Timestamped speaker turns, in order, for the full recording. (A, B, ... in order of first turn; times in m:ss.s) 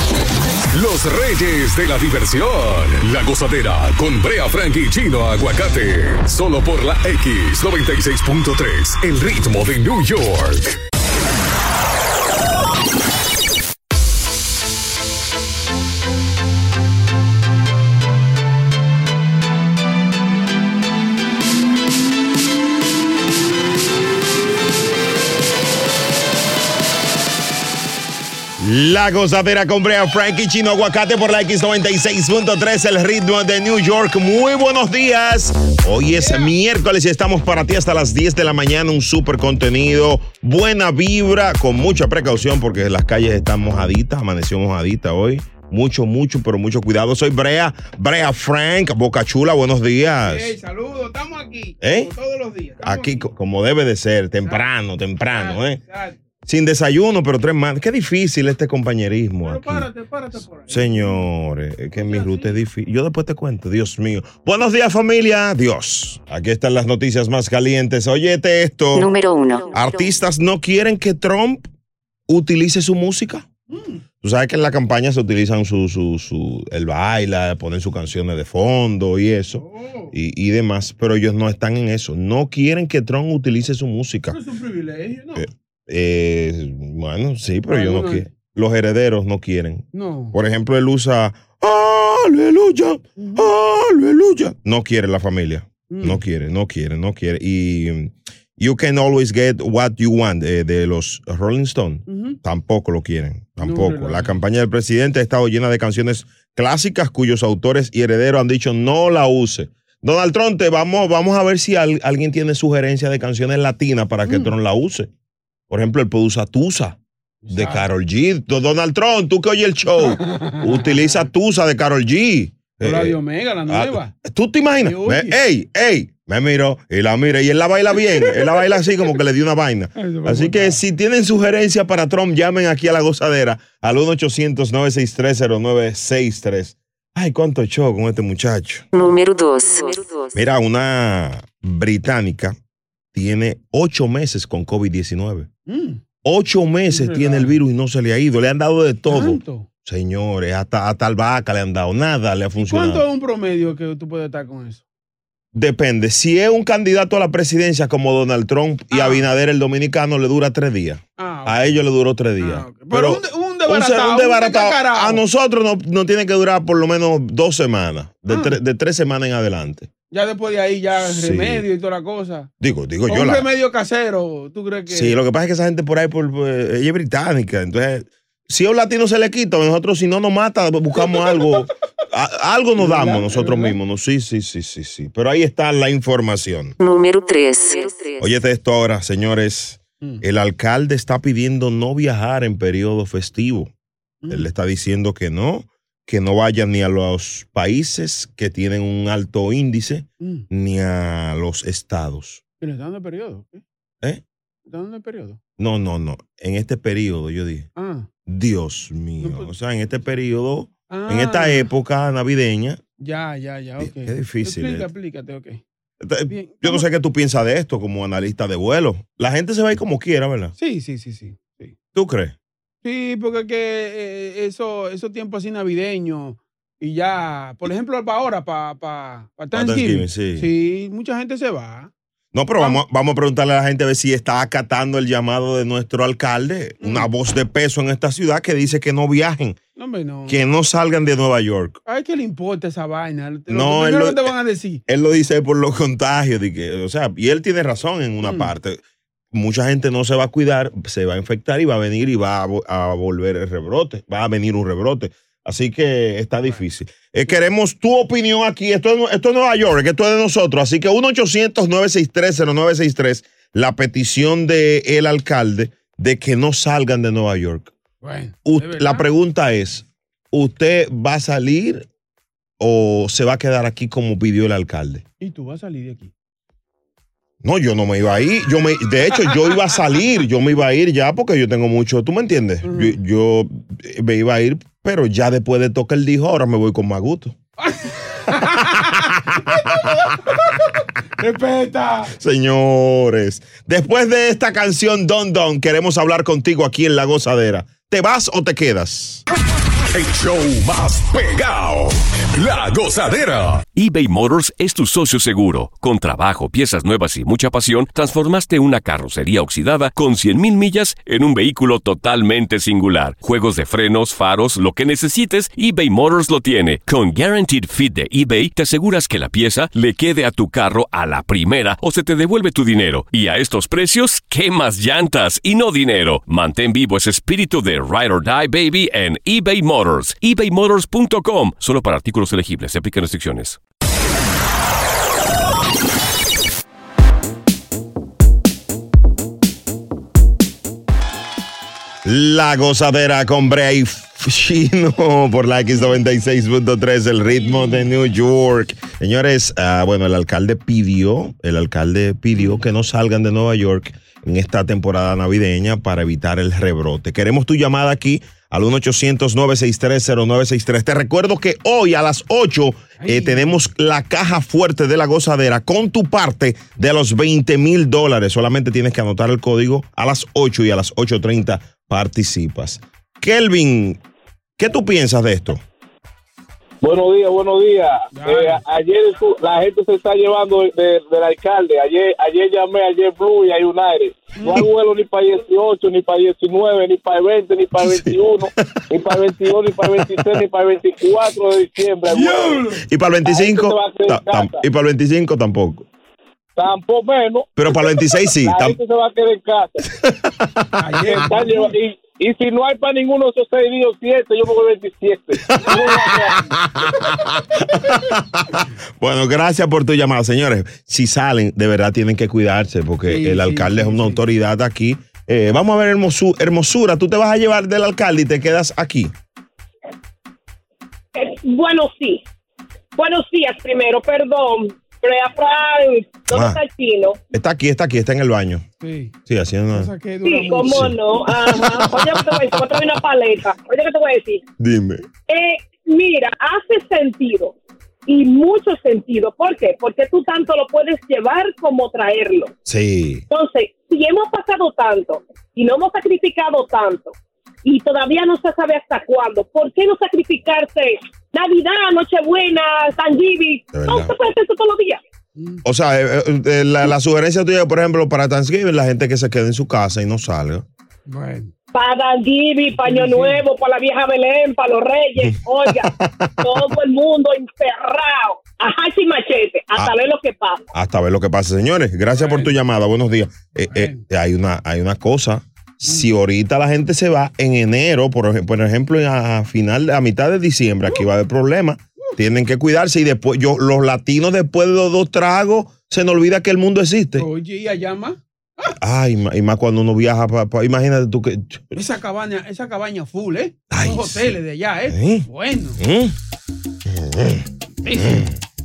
0:00.7-0:10.8 A
0:28.6-0:50.6 B
0:36.2-0:36.5 C
0:50.2-0:53.3 C
0:51.8-0:52.1 B
0:52.8-0:55.8 B
0:55.3-0:56.2 C
0:56.5-0:59.9 B
0:59.4-1:01.2 C
1:00.6-1:09.1 B
1:01.9-1:02.6 C
1:08.9-1:10.1 D
1:09.7-1:11.7 B
1:12.3-1:13.5 B
1:13.7-1:14.0 C
1:14.2-1:24.4 B
1:19.6-1:20.1 C
1:24.3-1:25.4 C
1:25.4-1:55.1 B
1:27.7-1:28.3 C
1:29.9-1:30.4 C
1:33.2-1:33.5 C
1:35.9-1:36.2 C
1:42.1-1:42.4 C
1:43.6-1:44.4 C
1:54.2-1:54.5 C
1:55.7-1:57.0 B
1:57.4-1:57.9 C
1:57.5-2:03.2 B
2:00.0-2:01.3 C
2:02.8-2:04.1 C
2:03.7-2:18.9 B
2:04.8-2:05.4 C
2:08.0-2:08.9 C
2:10.0-2:10.8 C
2:18.9-2:20.3 D
2:20.3-2:22.6 B
2:23.1-2:25.5 B
2:25.7-2:26.0 C
2:26.2-2:33.0 B
2:26.9-2:27.6 C
2:29.0-2:29.7 C
2:32.6-2:34.8 C
2:35.5-2:49.9 B
2:38.9-2:39.2 C
2:41.2-2:41.8 C
2:42.4-2:45.2 C
2:48.3-2:48.6 C
2:50.1-2:52.5 C
2:51.0-2:51.6 B
2:52.6-2:53.5 B
2:53.1-2:55.2 C
2:54.9-3:06.8 B
3:02.8-3:03.8 C
3:06.8-3:08.2 D
3:08.2-3:13.7 B
3:14.2-3:14.5 C
3:14.3-3:22.4 B
3:20.2-3:20.5 C
3:22.6-3:23.6 C
3:24.6-3:25.4 C
3:25.6-3:27.7 B
3:27.8-3:28.1 C
3:28.2-3:32.8 B
3:29.2-3:29.5 C
3:30.9-3:31.7 C
3:33.0-3:35.6 C
3:33.8-3:34.9 B
3:36.0-3:40.5 B
3:36.3-3:36.8 C
3:40.6-3:41.8 C
3:41.9-3:42.3 B
3:42.8-3:51.9 C
3:49.5-3:50.5 B
3:52.3-3:59.6 B
3:56.8-3:57.1 C
3:59.8-4:00.4 C
4:00.3-4:01.8 B
4:01.8-4:04.8 C
4:03.5-4:04.3 B
4:04.9-4:08.8 B
4:08.2-4:08.5 C
4:09.3-4:27.7 B
4:28.0-4:29.0 C
4:28.4-4:31.9 B
4:32.6-4:35.0 B
4:35.2-4:36.1 C
4:37.4-4:47.4 B
4:42.6-4:43.0 C
4:47.6-4:50.6 C
4:48.4-4:50.3 B
4:51.2-4:52.1 C
4:52.1-4:59.2 B
4:59.9-5:03.6 A
5:03.7-5:33.6 E
5:42.0-6:14.0 B
5:47.3-5:47.8 C
5:52.3-5:52.6 C
6:03.0-6:03.6 C
6:14.6-6:15.6 B
6:16.8-6:32.6 F
6:18.1-6:18.6 C
6:24.4-6:24.6 C
6:27.8-6:28.8 B
6:32.1-6:32.8 C
6:32.8-6:35.8 B
6:33.3-6:34.6 F
6:36.6-6:37.7 F
6:37.6-6:38.8 B
6:38.4-6:39.8 F
6:39.9-6:41.3 B
6:40.8-6:41.7 C
6:41.1-6:46.4 F
6:45.4-6:59.1 B
6:45.7-6:46.4 C
6:53.0-6:54.2 C
7:01.1-7:02.2 G
7:03.0-7:07.2 G
7:06.3-7:06.6 B
7:07.3-7:08.6 B
7:08.8-7:09.2 C
7:09.3-7:09.9 B
7:09.7-7:11.0 C
7:10.2-7:14.4 G
7:10.6-7:12.5 B
7:14.6-7:15.0 B
7:15.3-7:17.6 G
7:18.1-7:22.5 G
7:22.6-7:23.3 B
7:23.3-7:35.0 G
7:33.7-7:34.1 B
7:35.4-7:35.6 C
7:35.6-7:40.6 B
7:41.1-7:41.5 C
7:41.7-7:45.9 G
7:42.8-7:43.4 C
7:45.2-7:46.7 B
7:46.4-7:50.6 G
7:50.7-8:07.3 B
7:52.1-7:52.5 C
7:53.6-7:54.0 C
7:55.8-7:56.1 C
8:07.2-8:08.7 C
8:08.8-8:11.8 B
8:11.7-8:15.8 C
8:13.7-8:14.3 B
8:14.9-8:15.3 B
8:15.8-8:16.1 B
8:16.9-8:18.3 B
8:17.8-8:18.3 C